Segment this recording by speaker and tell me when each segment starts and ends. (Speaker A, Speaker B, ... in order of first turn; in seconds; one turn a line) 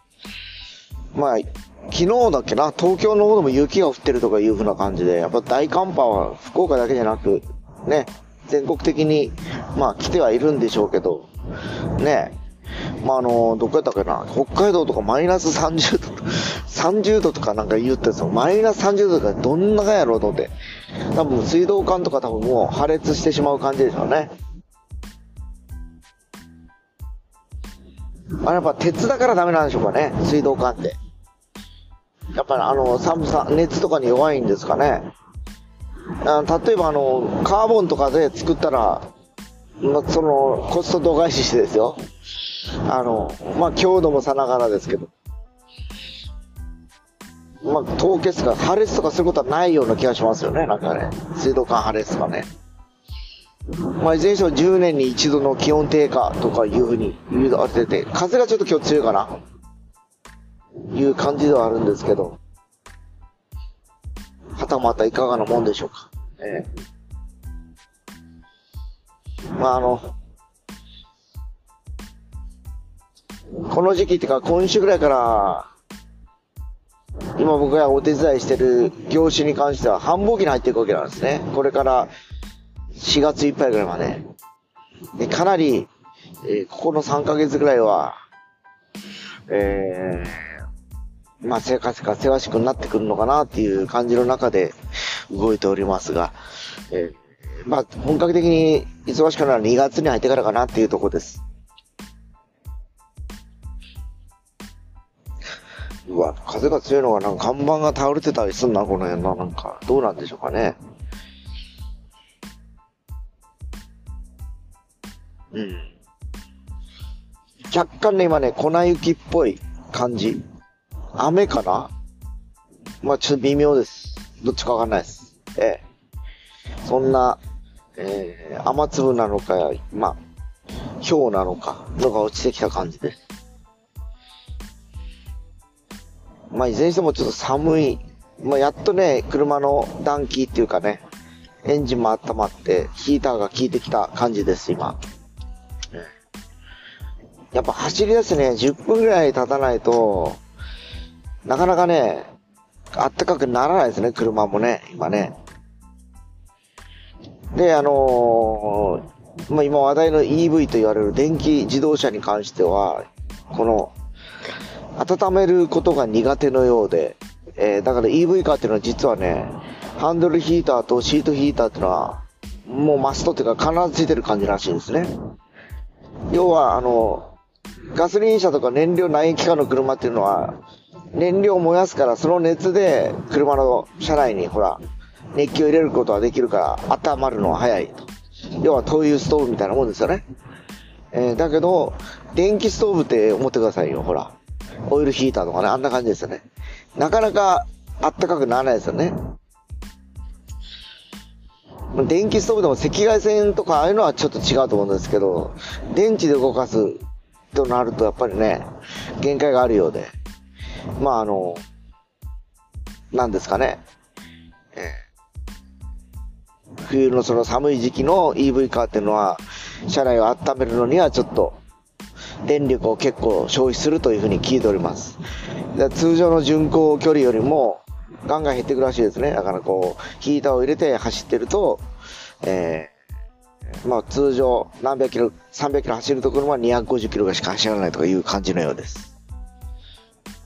Speaker A: 1.1-11.3
Speaker A: 11.9-12.3
Speaker A: 13.0-20.5
Speaker A: 21.1-24.3
Speaker A: 28.4-31.0
Speaker A: 32.3-35.1
Speaker A: 36.2-39.1
Speaker A: 39.8-42.0
Speaker A: 42.8-45.1
Speaker A: 47.6-52.5
Speaker A: 54.0-59.4
Speaker A: 60.9-62.4
Speaker A: 64.5-66.7
Speaker A: 69.5-70.1
Speaker A: 73.7-75.7
Speaker A: 77.4-82.1
Speaker A: 83.0-84.3
Speaker A: 85.2-85.9
Speaker A: 86.4-88.2
Speaker A: 89.5-90.6
Speaker A: 91.4-101.4
Speaker A: 106.1-110.8
Speaker A: 115.5-115.9
Speaker A: 117.7-120.4
Speaker A: 121.2-121.9
Speaker A: 123.0-125.8
Speaker A: 126.8-127.4
Speaker A: 128.0-130.2
Speaker A: 131.0-133.2
Speaker A: 136.5-141.0
Speaker A: 141.6-145.0
Speaker A: 147.5-150.4
Speaker A: 151.4-152.3
Speaker A: 152.9-155.3
Speaker A: 157.5-163.9
Speaker A: 165.0-175.1
Speaker A: 176.3-177.3
Speaker A: 177.9-180.6
Speaker A: 181.1-184.8
Speaker A: 185.3-190.2
Speaker A: 191.1-194.3
Speaker A: 194.9-196.4
Speaker A: 196.9-199.2
Speaker A: 201.9-207.0
Speaker A: 207.5-210.1
Speaker A: 211.0-211.6
Speaker A: 213.1-213.8
Speaker A: 214.7-215.0
Speaker A: 216.9-221.6
Speaker A: 222.4-225.2
Speaker A: 225.7-231.8
Speaker A: 232.4-232.9
Speaker A: 233.8-239.1